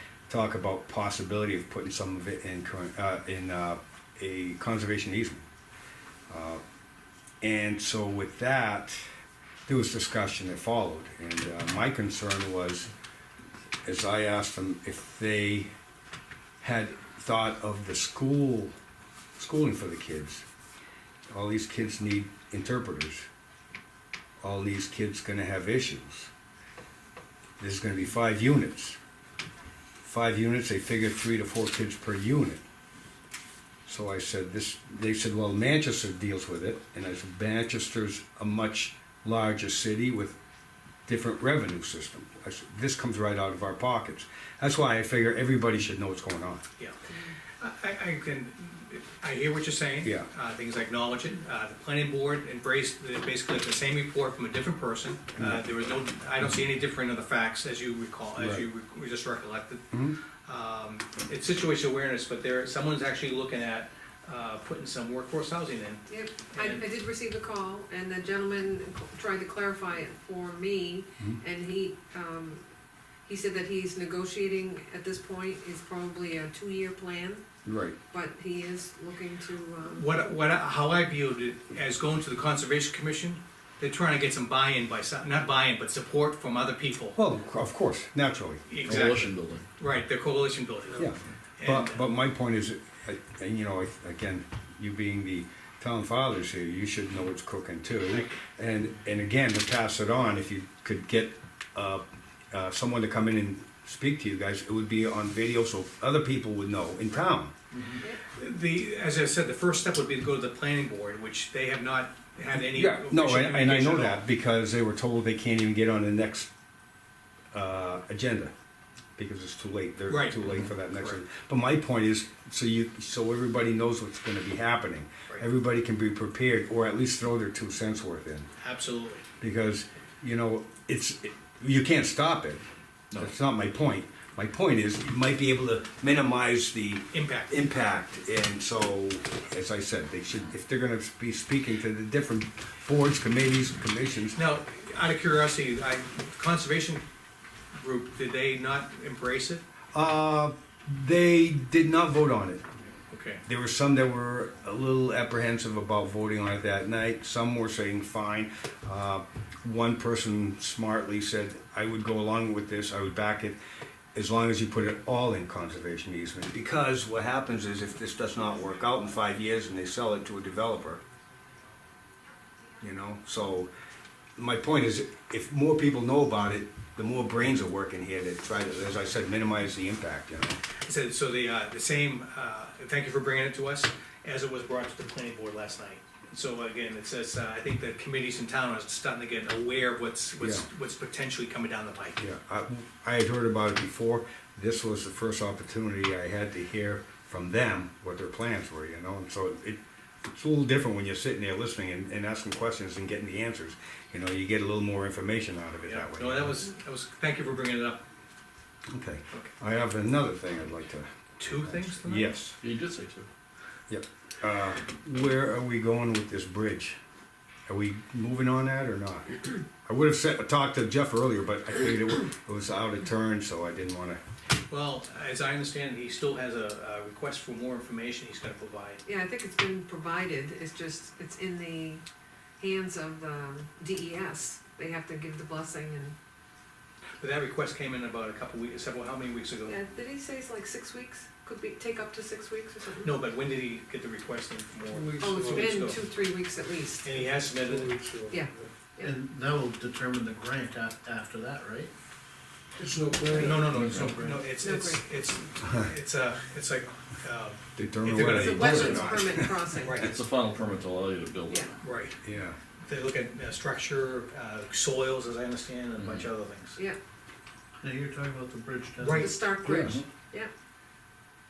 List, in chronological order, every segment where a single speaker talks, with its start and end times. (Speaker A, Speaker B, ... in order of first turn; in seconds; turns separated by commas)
Speaker A: 0.3-5.4, Speaker A: 6.3-6.6, Speaker A: 7.4-9.0, Speaker A: 9.7-12.9, Speaker A: 13.8-15.7, Speaker A: 16.6-18.7, Speaker A: 19.4-20.4, Speaker A: 21.3-23.2, Speaker A: 24.4-26.3, Speaker A: 27.6-29.0, Speaker A: 30.0-32.6, Speaker A: 33.9-40.4, Speaker A: 41.1-46.6, Speaker B: 47.6-59.9, Speaker A: 55.4-55.6, Speaker A: 58.4-58.6, Speaker A: 59.9-60.2, Speaker B: 60.5-66.8, Speaker C: 66.1-72.6, Speaker C: 73.2-77.4, Speaker A: 77.6-78.0, Speaker C: 78.1-80.1, Speaker B: 79.9-87.2, Speaker A: 87.2-88.7, Speaker B: 88.7-92.0, Speaker D: 88.8-89.7, Speaker A: 91.0-107.5, Speaker B: 98.1-98.3, Speaker B: 108.3-114.2, Speaker A: 112.5-116.5, Speaker A: 117.5-118.5, Speaker A: 119.2-128.5, Speaker B: 120.1-121.2, Speaker B: 128.6-129.3, Speaker A: 129.4-132.6, Speaker A: 133.2-144.4, Speaker B: 137.1-137.5, Speaker B: 144.3-147.1, Speaker B: 147.7-149.6, Speaker A: 149.9-152.7, Speaker B: 153.1-153.4, Speaker A: 153.4-163.6, Speaker A: 164.1-171.0, Speaker A: 172.8-173.7, Speaker A: 174.4-180.6, Speaker B: 180.8-192.2, Speaker A: 190.4-190.7, Speaker A: 192.2-199.8, Speaker A: 200.3-206.6, Speaker B: 205.8-208.0, Speaker A: 208.9-212.6, Speaker B: 211.4-212.3, Speaker D: 212.6-213.3, Speaker A: 213.9-217.0, Speaker A: 217.7-224.2, Speaker B: 224.7-229.0, Speaker C: 229.1-232.0, Speaker C: 232.6-236.2, Speaker B: 237.2-239.8, Speaker C: 239.7-243.2, Speaker B: 243.0-246.0, Speaker A: 244.9-245.7, Speaker C: 245.2-247.2, Speaker B: 247.0-248.0, Speaker A: 247.6-248.7, Speaker C: 248.3-249.1, Speaker E: 249.0-251.9, Speaker A: 252.8-253.8, Speaker B: 253.3-258.8, Speaker C: 253.3-253.7, Speaker E: 253.7-254.4, Speaker D: 253.7-254.2, Speaker C: 254.6-255.0, Speaker A: 257.8-259.6, Speaker C: 258.3-260.0, Speaker D: 258.3-259.2, Speaker B: 259.8-260.2, Speaker D: 259.9-261.8, Speaker B: 261.8-262.2, Speaker A: 262.2-262.6, Speaker B: 262.8-266.8, Speaker D: 266.0-266.2, Speaker E: 267.8-269.7, Speaker B: 269.0-269.4, Speaker C: 269.1-270.5, Speaker A: 269.6-270.0, Speaker D: 269.8-270.0